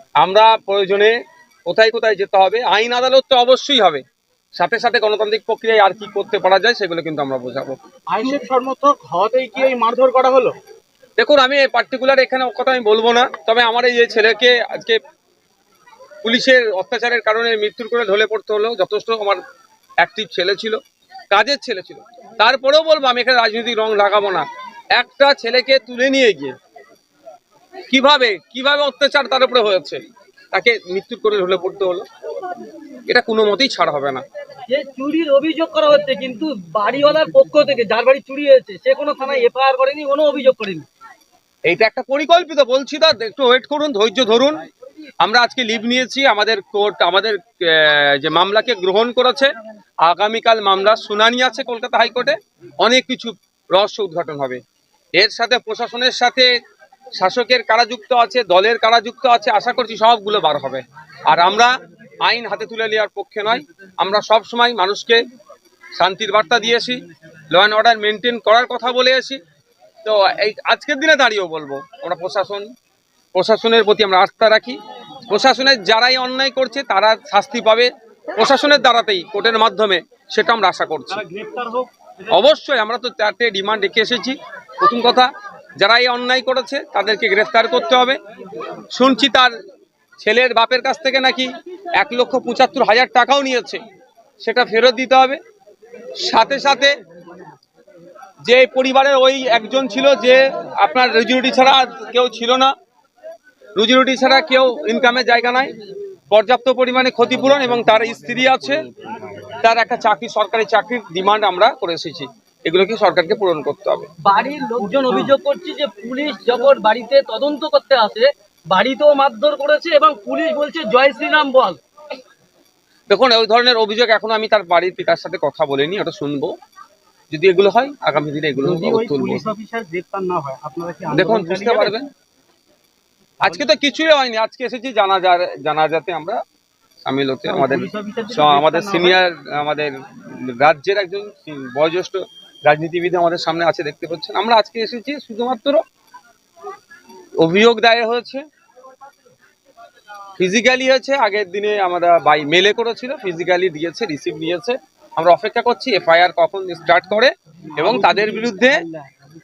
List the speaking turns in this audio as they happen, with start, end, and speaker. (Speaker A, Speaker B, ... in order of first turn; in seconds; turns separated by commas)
Speaker A: 0.2-4.0, Speaker A: 4.6-7.8, Speaker B: 8.1-10.6, Speaker A: 11.2-15.0, Speaker A: 16.2-19.4, Speaker A: 20.0-20.8, Speaker A: 21.3-26.5, Speaker A: 27.9-30.0, Speaker A: 30.5-32.0, Speaker A: 33.1-34.2, Speaker C: 34.7-40.9, Speaker A: 41.7-44.6, Speaker A: 45.2-49.5, Speaker A: 50.0-54.6, Speaker A: 55.2-56.5, Speaker A: 57.2-61.7, Speaker A: 62.2-65.2, Speaker A: 66.0-69.4, Speaker A: 70.0-72.7, Speaker A: 73.3-74.8, Speaker A: 75.3-81.2, Speaker B: 81.1-81.9, Speaker A: 82.3-88.2, Speaker A: 88.9-89.5, Speaker A: 90.2-93.8, Speaker A: 94.4-95.4, Speaker A: 96.2-97.0, Speaker A: 98.4-102.7, Speaker A: 103.8-105.7, Speaker A: 106.3-108.8, Speaker A: 109.6-114.1, Speaker C: 114.2-121.8, Speaker B: 114.8-115.3, Speaker A: 123.1-126.5, Speaker A: 127.3-129.4, Speaker B: 128.6-132.0, Speaker A: 131.1-132.1, Speaker A: 133.4-136.4, Speaker A: 137.1-145.8, Speaker B: 137.5-139.2, Speaker A: 147.4-148.4, Speaker A: 150.4-158.8, Speaker B: 157.7-159.1